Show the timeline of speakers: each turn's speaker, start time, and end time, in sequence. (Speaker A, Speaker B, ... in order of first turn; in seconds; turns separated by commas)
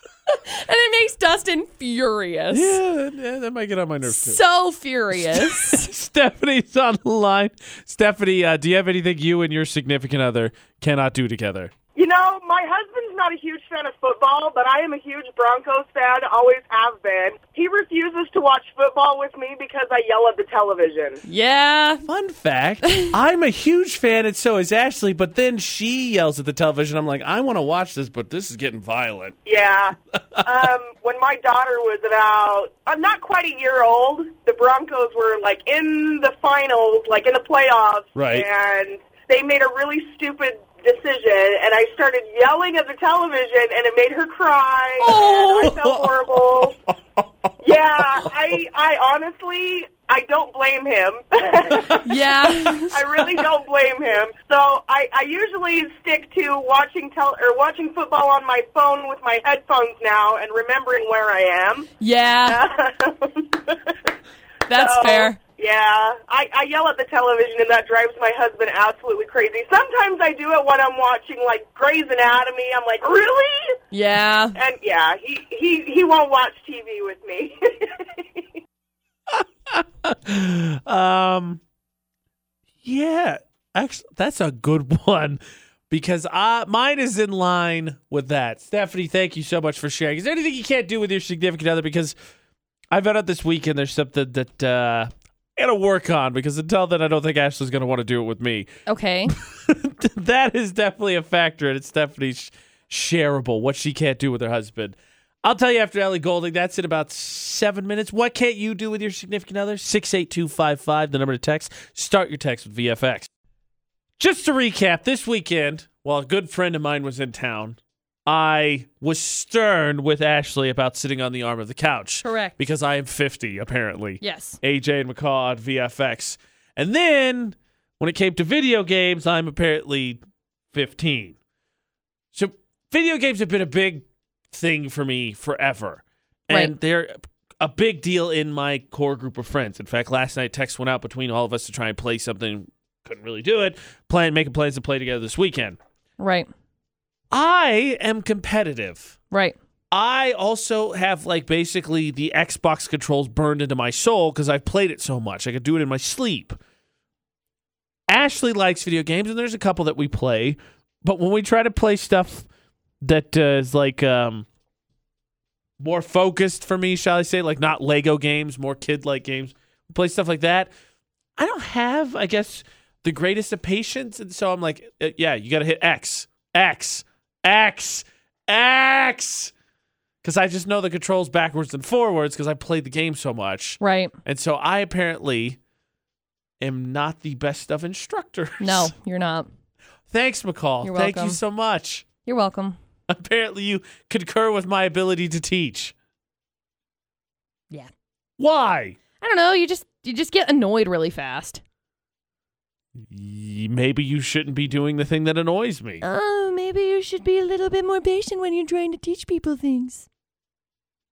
Speaker A: 0.3-2.8, Speaker B: 2.5-4.4, Speaker A: 4.0-5.9, Speaker B: 5.2-11.7, Speaker C: 12.0-21.2, Speaker A: 21.3-22.0, Speaker B: 22.1-29.4, Speaker A: 22.8-23.1, Speaker C: 29.5-46.8, Speaker B: 38.1-38.5, Speaker B: 45.0-47.3, Speaker C: 47.6-52.1, Speaker B: 48.0-48.6, Speaker B: 51.7-53.4, Speaker A: 52.0-53.0, Speaker C: 52.9-61.9, Speaker A: 62.0-62.6, Speaker C: 62.5-64.1, Speaker A: 64.7-65.4, Speaker C: 64.7-73.8, Speaker A: 73.9-74.6, Speaker C: 74.6-78.4, Speaker B: 79.3-81.6, Speaker B: 82.8-92.2, Speaker B: 92.9-98.7, Speaker A: 98.9-99.3, Speaker B: 99.3-113.3, Speaker B: 114.2-130.2, Speaker A: 122.2-122.6, Speaker A: 124.2-124.6, Speaker B: 130.7-131.4, Speaker B: 132.3-145.8, Speaker A: 146.2-146.5, Speaker B: 147.3-149.1, Speaker A: 149.3-149.6, Speaker B: 149.9-156.6, Speaker B: 158.1-162.5, Speaker B: 163.0-164.5, Speaker B: 165.8-170.7, Speaker B: 171.4-179.5, Speaker B: 180.2-185.6, Speaker A: 183.8-184.2, Speaker B: 186.6-188.9, Speaker A: 188.6-189.5, Speaker B: 190.1-192.1, Speaker A: 190.8-191.4, Speaker A: 192.2-192.8, Speaker B: 193.1-195.9, Speaker B: 198.4-199.0, Speaker A: 199.2-201.6, Speaker B: 203.0-206.0, Speaker A: 206.0-210.1